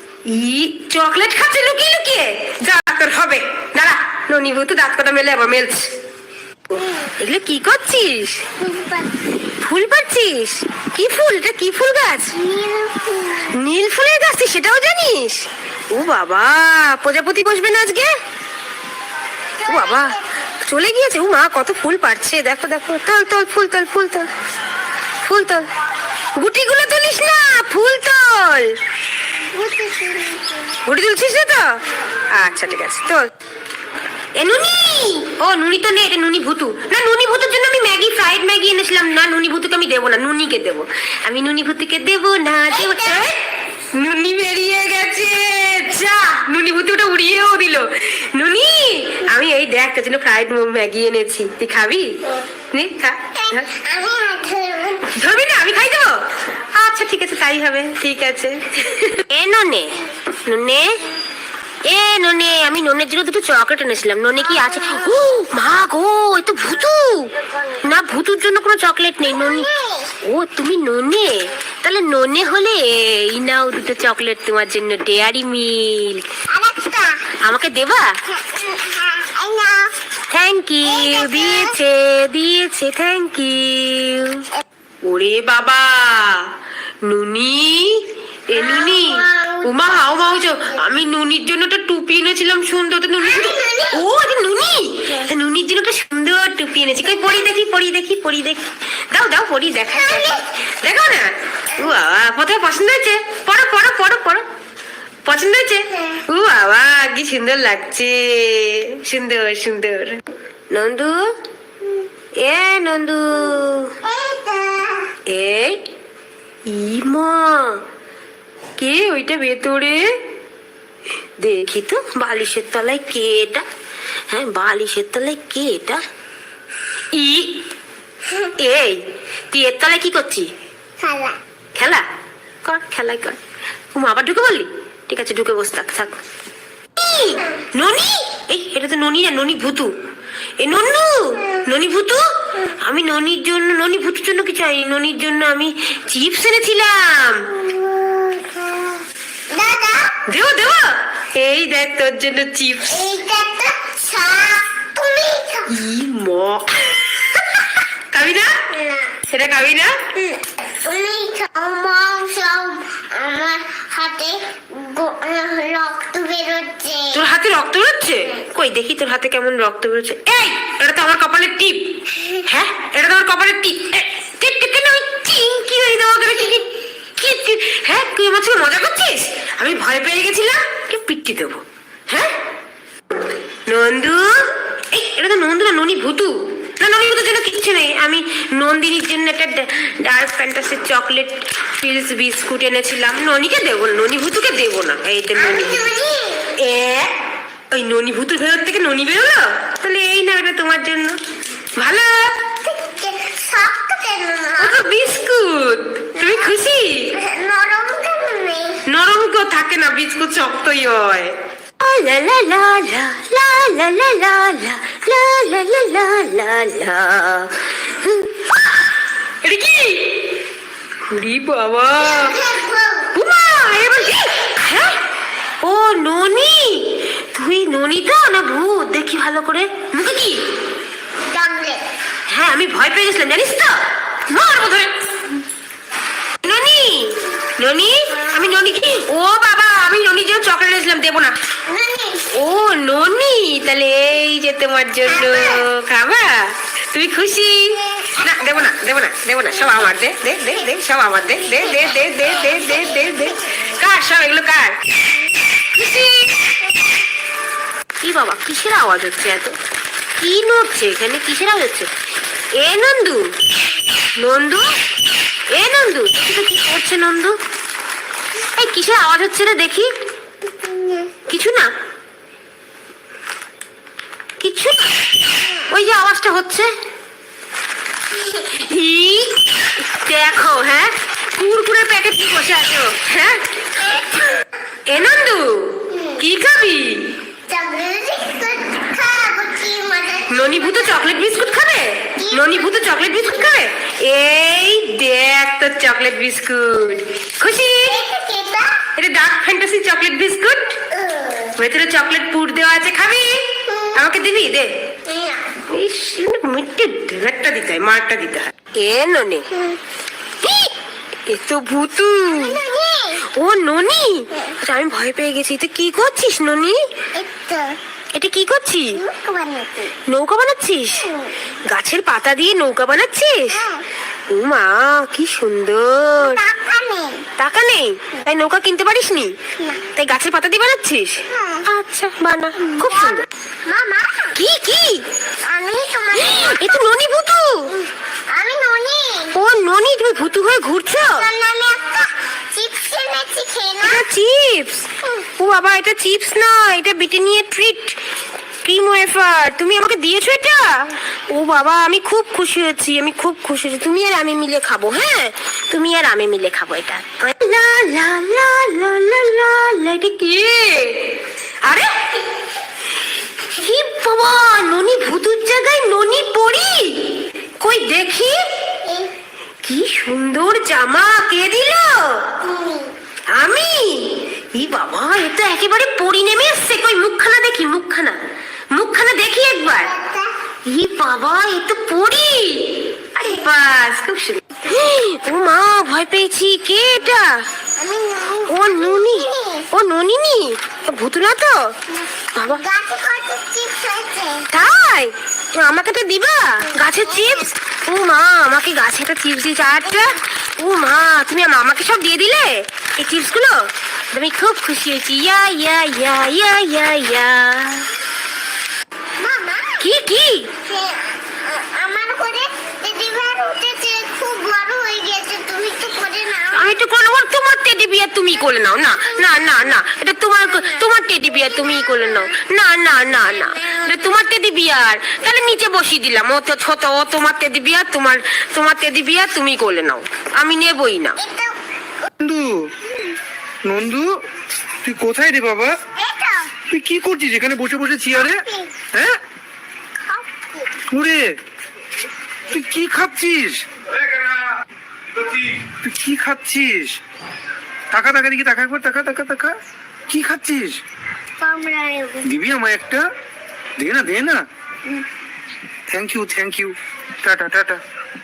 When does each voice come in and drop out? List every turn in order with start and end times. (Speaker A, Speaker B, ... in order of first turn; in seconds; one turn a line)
Speaker A: 0.3-5.9
Speaker B: 6.7-7.1
Speaker A: 7.2-8.4
Speaker B: 8.6-9.1
Speaker A: 9.6-12.3
Speaker B: 12.3-13.5
Speaker A: 13.5-18.1
Speaker B: 19.6-20.2
Speaker A: 19.7-24.3
Speaker A: 25.2-25.7
Speaker A: 26.4-28.8
Speaker B: 29.5-30.8
Speaker A: 30.9-31.8
Speaker A: 32.3-33.3
Speaker A: 34.4-43.4
Speaker B: 42.7-43.3
Speaker A: 43.9-52.2
Speaker A: 52.7-53.7
Speaker B: 53.3-55.1
Speaker A: 55.1-56.2
Speaker A: 56.7-61.0
Speaker A: 61.9-67.3
Speaker B: 64.4-65.3
Speaker B: 67.5-67.8
Speaker A: 67.8-69.7
Speaker B: 69.3-70.1
Speaker A: 70.2-76.2
Speaker B: 76.5-77.2
Speaker A: 77.4-78.2
Speaker B: 78.3-79.9
Speaker A: 80.3-84.5
Speaker B: 80.8-81.8
Speaker A: 85.0-86.5
Speaker A: 87.0-104.4
Speaker B: 88.5-89.7
Speaker B: 93.2-94.0
Speaker B: 99.9-100.4
Speaker A: 105.2-110.2
Speaker A: 110.7-111.3
Speaker A: 112.4-113.9
Speaker B: 114.0-115.1
Speaker A: 115.3-115.8
Speaker A: 116.7-117.8
Speaker A: 118.8-120.1
Speaker A: 121.4-123.6
Speaker A: 124.3-126.0
Speaker A: 127.1-127.6
Speaker A: 128.6-130.5
Speaker B: 131.0-131.4
Speaker A: 131.8-132.0
Speaker A: 132.6-133.4
Speaker A: 133.9-136.2
Speaker A: 137.0-139.9
Speaker A: 140.6-147.5
Speaker B: 147.5-150.2
Speaker A: 150.3-153.0
Speaker B: 152.9-155.7
Speaker A: 155.7-158.6
Speaker B: 158.7-159.1
Speaker A: 159.3-160.0
Speaker B: 160.1-167.2
Speaker A: 167.1-182.3
Speaker A: 183.7-195.8
Speaker B: 195.4-196.5
Speaker A: 196.6-197.1
Speaker A: 197.7-201.2
Speaker A: 201.8-202.4
Speaker B: 202.5-204.8
Speaker A: 204.6-207.1
Speaker B: 206.2-206.5
Speaker B: 207.1-208.8
Speaker A: 208.8-218.7
Speaker A: 219.4-220.2
Speaker A: 221.1-222.3
Speaker B: 222.0-223.1
Speaker A: 223.1-225.0
Speaker A: 225.6-230.4
Speaker B: 231.3-231.8
Speaker A: 232.3-235.0
Speaker A: 236.4-241.3
Speaker B: 241.7-242.3
Speaker A: 242.3-254.8
Speaker B: 245.1-245.6
Speaker B: 247.9-248.2
Speaker B: 251.6-253.4
Speaker A: 255.7-256.5
Speaker A: 258.0-259.6
Speaker A: 260.2-261.9
Speaker A: 262.6-263.3
Speaker A: 264.2-264.7
Speaker A: 265.5-267.4
Speaker A: 268.5-269.9
Speaker B: 270.5-271.1
Speaker A: 271.3-271.7
Speaker A: 274.4-274.9
Speaker A: 275.7-276.7
Speaker A: 278.3-283.4
Speaker B: 283.8-284.1
Speaker A: 284.9-287.1
Speaker B: 285.9-286.2
Speaker B: 287.5-291.1
Speaker A: 290.3-298.0
Speaker B: 292.2-292.7
Speaker B: 297.8-298.8
Speaker A: 298.9-300.8
Speaker B: 300.9-301.5
Speaker A: 301.6-304.7
Speaker B: 303.7-303.9
Speaker B: 305.1-305.5
Speaker A: 305.7-309.4
Speaker B: 309.5-309.8
Speaker A: 310.4-310.7
Speaker A: 311.3-312.6
Speaker B: 312.3-313.2
Speaker A: 313.3-316.8
Speaker B: 317.1-317.8
Speaker A: 318.1-319.0
Speaker B: 318.9-319.9
Speaker A: 320.1-321.1
Speaker B: 321.0-321.3
Speaker A: 321.7-323.6
Speaker B: 323.5-323.9
Speaker A: 324.3-326.4
Speaker B: 326.2-327.2
Speaker A: 327.4-329.4
Speaker A: 329.9-333.2
Speaker B: 331.3-331.7
Speaker B: 332.8-334.4
Speaker A: 334.3-335.0
Speaker B: 335.4-336.9
Speaker A: 336.2-337.7
Speaker B: 337.7-339.3
Speaker A: 339.3-341.3
Speaker B: 341.1-344.1
Speaker A: 343.8-348.0
Speaker A: 348.6-361.1
Speaker A: 361.6-361.9
Speaker A: 363.5-368.4
Speaker B: 368.8-369.1
Speaker A: 369.6-372.4
Speaker B: 372.4-372.9
Speaker A: 373.3-378.2
Speaker A: 378.7-379.9
Speaker B: 379.6-380.3
Speaker A: 380.6-387.4
Speaker B: 387.8-389.7
Speaker A: 388.5-391.7
Speaker B: 391.9-394.5
Speaker A: 392.4-392.6
Speaker A: 394.5-407.9
Speaker B: 396.8-397.4
Speaker B: 399.9-400.2
Speaker B: 409.2-409.9
Speaker A: 409.8-410.5
Speaker B: 410.6-416.7
Speaker A: 416.5-431.2
Speaker B: 419.0-419.5
Speaker B: 420.5-422.3
Speaker B: 423.2-423.9
Speaker B: 431.2-432.1
Speaker C: 432.2-432.7
Speaker C: 433.6-434.1
Speaker C: 434.8-435.8
Speaker B: 436.0-436.5
Speaker C: 436.7-439.2
Speaker B: 438.2-438.7
Speaker B: 440.1-440.7
Speaker C: 440.9-441.4
Speaker C: 442.5-443.6
Speaker C: 445.3-447.0
Speaker C: 447.9-449.6
Speaker C: 450.1-450.8
Speaker B: 451.4-452.3
Speaker C: 452.2-453.0
Speaker C: 453.8-454.4
Speaker C: 455.9-457.8